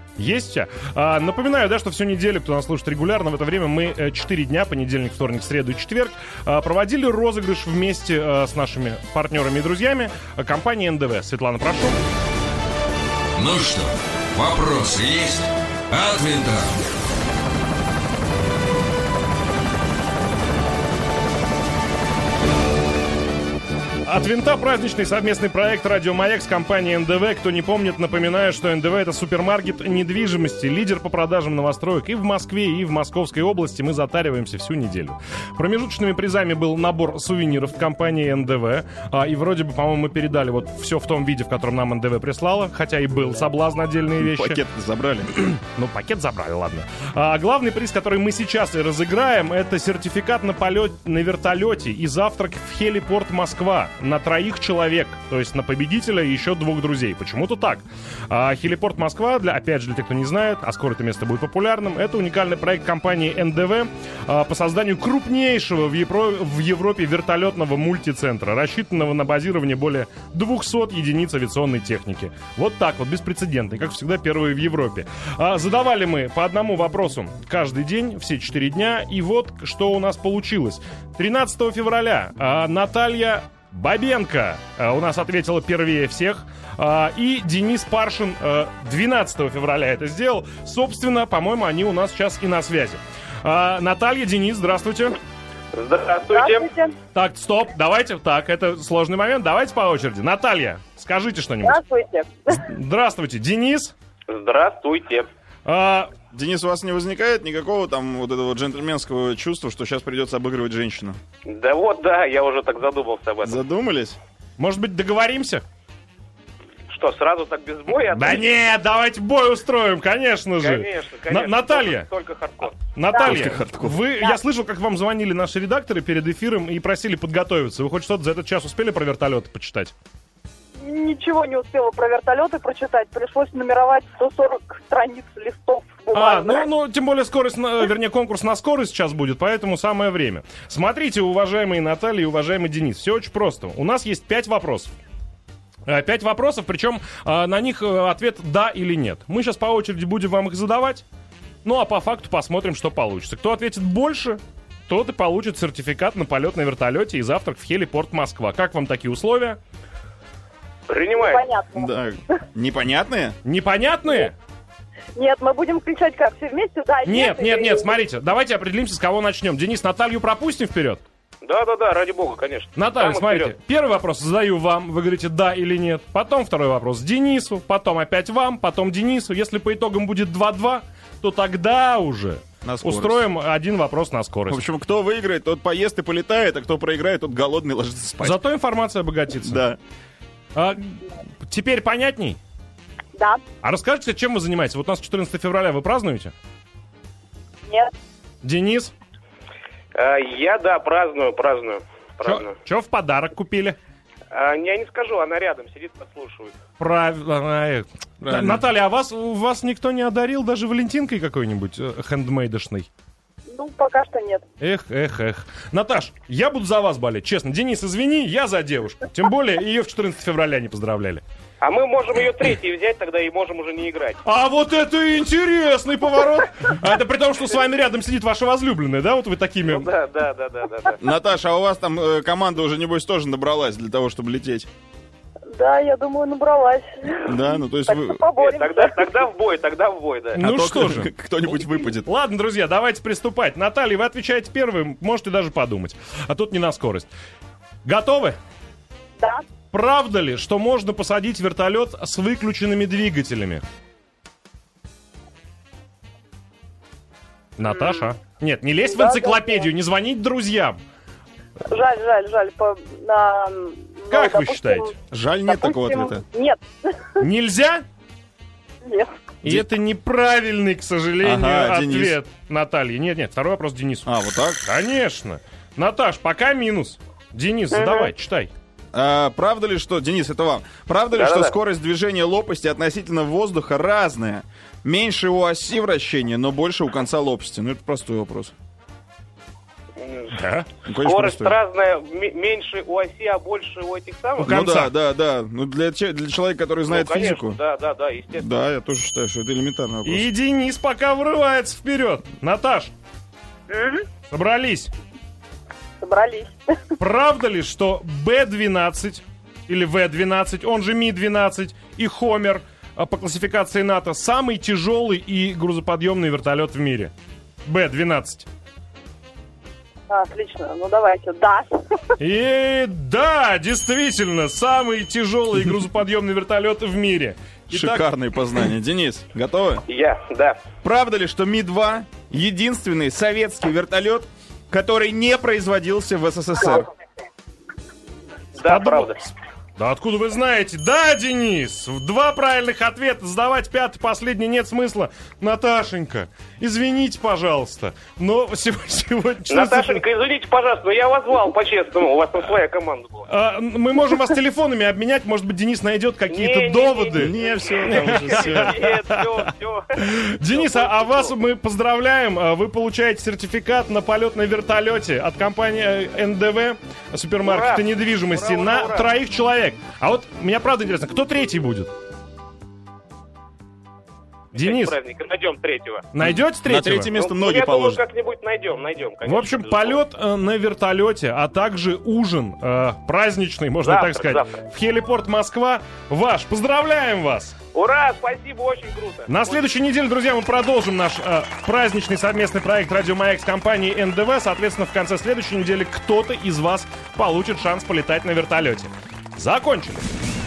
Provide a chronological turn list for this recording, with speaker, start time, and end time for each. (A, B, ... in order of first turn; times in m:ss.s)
0:00.2-0:12.0 A
0:13.4-0:16.7 B
0:24.0-0:44.6 A
0:44.2-0:45.3 C
0:45.4-1:35.2 A
1:35.7-1:36.7 D
1:36.3-1:36.9 E
1:37.1-1:41.8 A
1:41.6-1:42.6 E
1:42.5-1:43.9 A
1:44.3-1:45.2 D
1:45.6-1:46.1 A
1:46.3-1:51.2 C
1:51.4-1:53.6 D
1:53.4-1:54.2 C
1:54.6-1:55.6 A
1:56.9-1:58.4 D
1:58.0-2:02.1 A
2:00.6-2:02.8 D
2:02.9-2:09.9 A
2:03.1-2:04.0 C
2:10.8-2:16.6 E
2:16.1-2:24.9 A
2:25.9-2:31.0 A
2:31.6-2:39.6 A
2:40.9-2:41.4 D
2:41.1-2:41.9 E
2:41.7-2:43.4 C
2:43.4-2:44.3 A
2:45.2-2:47.9 E
2:47.0-2:51.0 A
2:51.4-2:53.5 D
2:52.8-3:04.6 A
3:02.6-3:03.2 C
3:04.5-3:08.4 C
3:08.2-3:09.6 A
3:09.4-3:09.8 C
3:10.5-3:12.4 A
3:13.2-3:13.4 E
3:13.6-3:16.3 A
3:17.7-3:17.9 E
3:18.4-3:18.9 A
3:19.9-3:22.5 D
3:22.2-3:23.8 A
3:24.3-3:26.5 D
3:26.8-3:32.9 A
3:28.2-3:28.6 C
3:33.5-3:34.4 E
3:34.6-3:41.2 A
3:41.6-3:44.2 D
3:44.2-3:49.9 A
3:49.7-3:51.0 D
3:51.0-3:54.7 C
3:55.5-3:59.0 E
3:57.3-3:58.2 C
3:58.4-4:00.4 D
4:00.3-4:01.1 A
4:00.4-4:02.1 C
4:02.0-4:07.1 A
4:07.8-4:08.4 A
4:09.2-4:09.4 E
4:09.7-4:13.6 A
4:17.6-4:20.8 A
4:18.8-4:19.7 E
4:21.7-4:24.9 E
4:24.1-4:24.9 A
4:25.1-4:26.2 C
4:25.5-4:27.2 E
4:27.2-4:27.8 A
4:28.8-4:29.1 E
4:29.4-4:34.1 A
4:31.2-4:32.2 C
4:34.0-4:34.6 C
4:34.6-4:38.5 A
4:37.7-4:38.1 E
4:38.9-4:48.5 C
4:41.1-4:41.5 D
4:50.0-4:50.4 D
4:50.3-4:50.7 A
4:50.8-4:51.5 C
4:50.9-4:54.5 D
4:54.4-4:54.9 A
4:54.4-4:57.6 C
4:56.9-4:58.4 D
4:58.3-5:00.2 C
5:00.0-5:02.9 A
5:03.7-5:04.0 E
5:04.3-5:04.9 A
5:06.0-5:06.7 E
5:07.0-5:17.1 A
5:17.6-5:18.4 A
5:20.1-5:21.7 E
5:22.2-5:28.0 A
5:27.7-5:29.8 C
5:29.9-5:30.6 D
5:30.8-5:36.9 C
5:38.6-5:39.2 D
5:38.6-5:50.0 A
5:49.5-5:53.3 D
5:53.3-5:57.3 A
5:56.3-6:01.3 D
5:57.2-5:58.8 C
5:57.8-5:59.2 A
6:00.0-6:11.9 A
6:07.4-6:09.1 D
6:14.5-6:14.9 A
6:14.6-6:16.0 D
6:16.1-6:17.1 A
6:16.2-6:18.0 C
6:17.1-6:20.0 D
6:19.2-6:27.6 A
6:23.8-6:24.5 D
6:27.7-6:29.6 D
6:29.3-6:40.0 A